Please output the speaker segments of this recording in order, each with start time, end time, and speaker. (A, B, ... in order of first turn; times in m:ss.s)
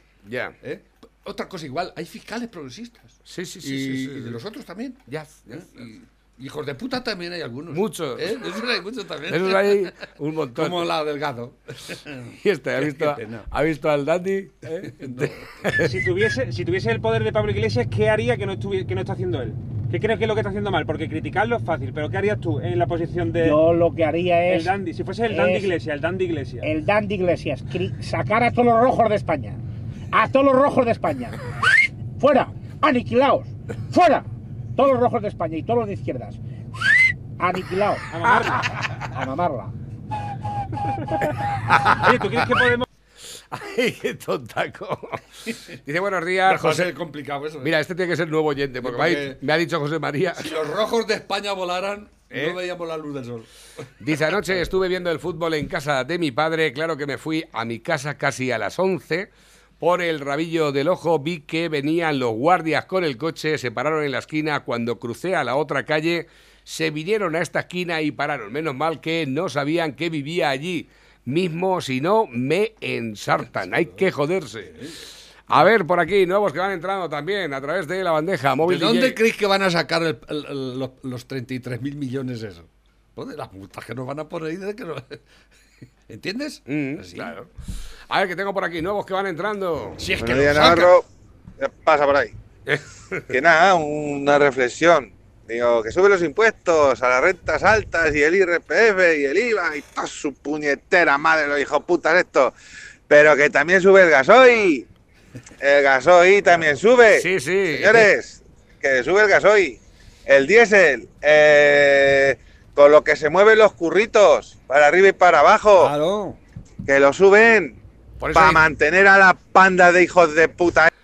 0:00.2-0:00.5 A
0:00.6-0:09.9 B
0:03.3-0:04.4 A
0:05.1-0:05.8 A
0:07.7-0:08.4 A
0:09.3-0:10.9 A
0:10.5-0:13.5 B
0:12.4-0:15.9 A
0:14.8-0:15.7 B
0:15.8-0:23.6 C
0:23.4-0:25.7 D
0:24.5-0:26.7 C
0:26.6-0:29.6 D
0:30.1-0:31.4 D
0:32.2-0:38.1 D
0:38.1-0:38.7 C
0:39.1-0:39.7 D
0:41.9-0:42.8 C
0:43.5-0:45.2 A
0:45.8-0:46.8 A
0:46.4-0:47.7 B
0:47.6-0:50.5 A
0:48.8-0:49.4 B
0:50.4-0:53.5 B
0:52.3-0:52.6 A
0:54.0-0:59.3 A
0:54.3-0:54.6 B
0:59.8-1:14.7 A
1:13.6-1:14.1 B
1:14.6-1:15.6 B
1:15.5-1:19.2 A
1:18.6-1:25.2 B
1:26.1-1:27.4 B
1:26.7-1:27.5 A
1:28.1-1:30.0 A
1:30.0-1:31.0 B
1:30.2-1:31.0 E
1:31.6-1:32.4 E
1:32.7-1:33.2 A
1:33.3-1:42.5 E
1:43.1-1:44.9 E
1:45.6-1:55.9 E
1:47.1-1:48.1 A
1:55.8-1:56.4 B
1:56.8-1:57.8 E
1:58.2-1:58.6 A
1:58.3-2:00.9 E